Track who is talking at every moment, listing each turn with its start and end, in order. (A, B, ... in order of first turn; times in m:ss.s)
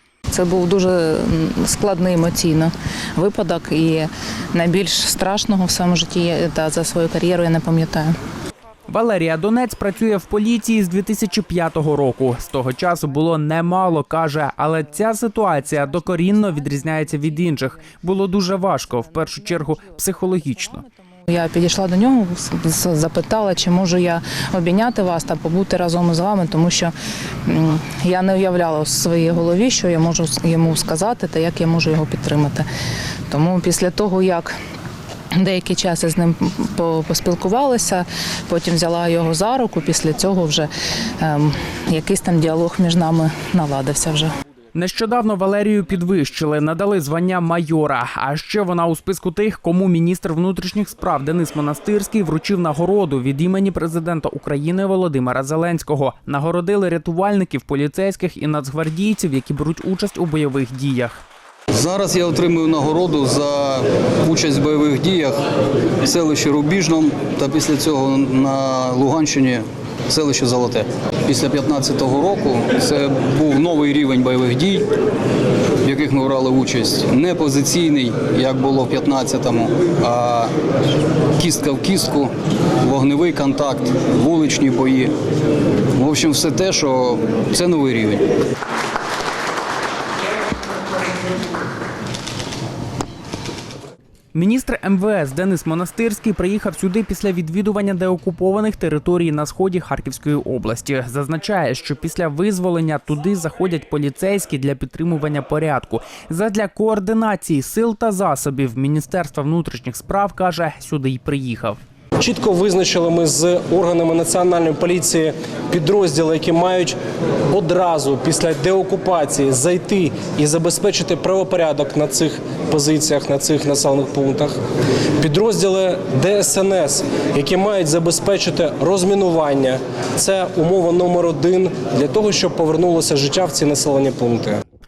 0:00.3-0:08.2 A
0:08.9-0:20.8 B
0:15.8-0:18.0 A
0:18.7-0:26.9 A
0:27.4-0:32.7 A
0:33.3-0:34.6 A
0:35.4-0:40.7 A
0:41.2-0:44.3 A
0:44.7-1:01.2 B
1:01.7-1:05.4 C
1:06.0-1:14.9 C
1:15.8-1:20.5 C
1:21.4-1:25.1 C
1:25.9-1:28.3 C
1:34.3-1:51.8 B
1:52.2-1:57.0 D
1:57.5-2:04.6 D
2:05.2-2:14.6 D